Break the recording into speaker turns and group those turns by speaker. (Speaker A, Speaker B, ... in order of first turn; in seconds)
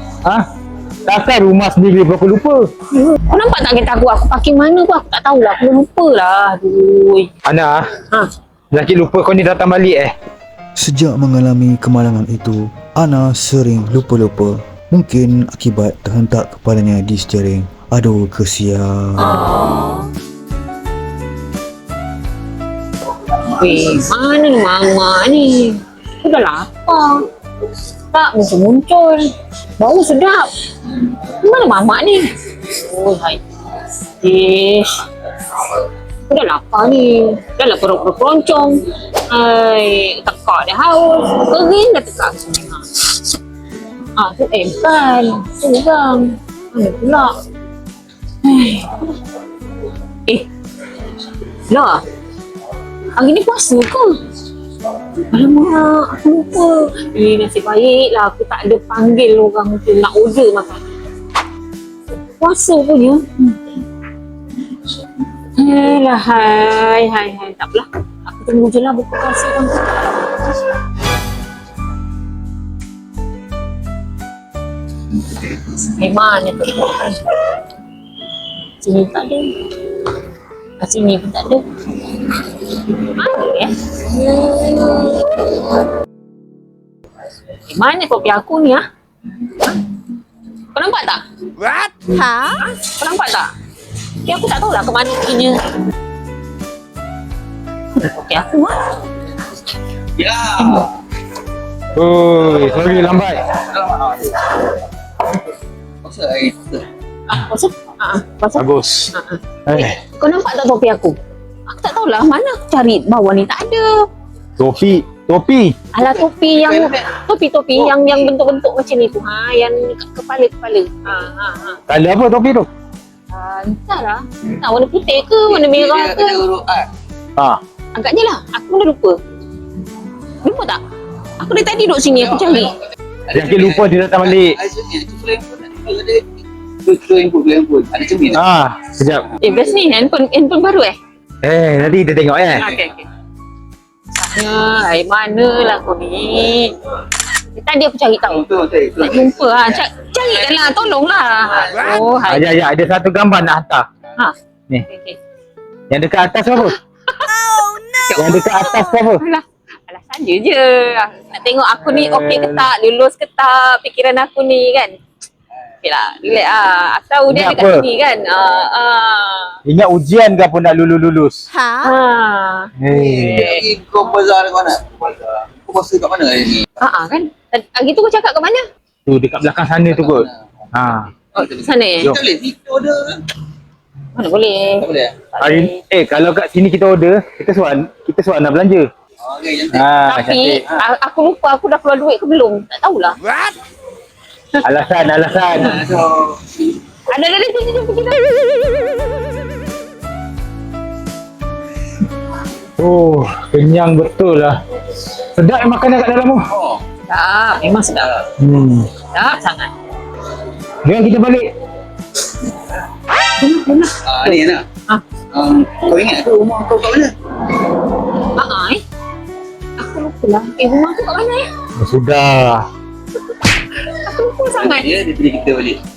Speaker A: 1.1-2.7, 7.5-7.8, 8.7-10.1, 101.9-103.4, 108.5-109.1, 109.7-110.0, 114.6-115.7, 121.9-122.7, 133.3-134.6, 138.3-139.3, 141.4-142.7, 152.2-153.8, 155.9-156.8, 158.1-159.2, 161.8-162.7, 167.3-167.8, 169.6-171.4, 172.8-173.4, 179.1-181.1, 185.4-188.9, 189.7-190.6, 194.6-195.8, 202.8-204.6, 205.3-206.4, 208.4-208.9, 210.8-211.5, 221.8-222.6
Speaker B: 2.9-7.3, 23.3-27.3, 28.1-33.4, 34.2-43.2, 44.2-47.3, 48.4-49.1, 51.7-52.0, 53.1-54.1, 55.3-60.8, 62.4-63.8, 65.5-70.7, 75.3-77.4, 78.8-80.1, 80.8-85.7, 87.7-88.8, 89.4-89.8, 90.7-91.2, 92.1-93.5, 94.2-95.6, 98.0-98.9, 100.6-100.9, 107.3-111.2, 111.7-114.1, 115.9-121.8, 123.3-126.4, 127.9-129.2, 130.4-130.8, 131.4-132.7, 139.4-140.9, 142.6-143.1, 144.1-146.9, 147.6-148.4, 149.0-152.5, 154.9-155.2, 157.1-164.9, 165.8-169.5, 171.6-172.7, 173.3-173.6, 176.8-178.6, 181.3-182.2, 184.1-185.8, 190.1-193.2, 197.1-198.5, 207.1-208.2, 209.1-209.7, 213.4-215.0, 218.2-218.8, 219.8-221.4, 223.7-224.9
Speaker C: 10.8-19.5
Speaker D: 100.2-100.9, 102.5-104.7, 106.0-106.9, 116.0-117.1, 117.7-118.3, 125.5-126.9, 133.3-136.3, 136.8-138.4, 139.3-139.7, 148.3-150.9, 151.5-152.0, 172.9-176.8, 179.8-180.3, 181.3-183.2, 184.8-185.2, 189.2-189.9, 195.6-196.4, 206.5-206.8, 214.1-214.6, 215.3-217.1, 224.6-225.8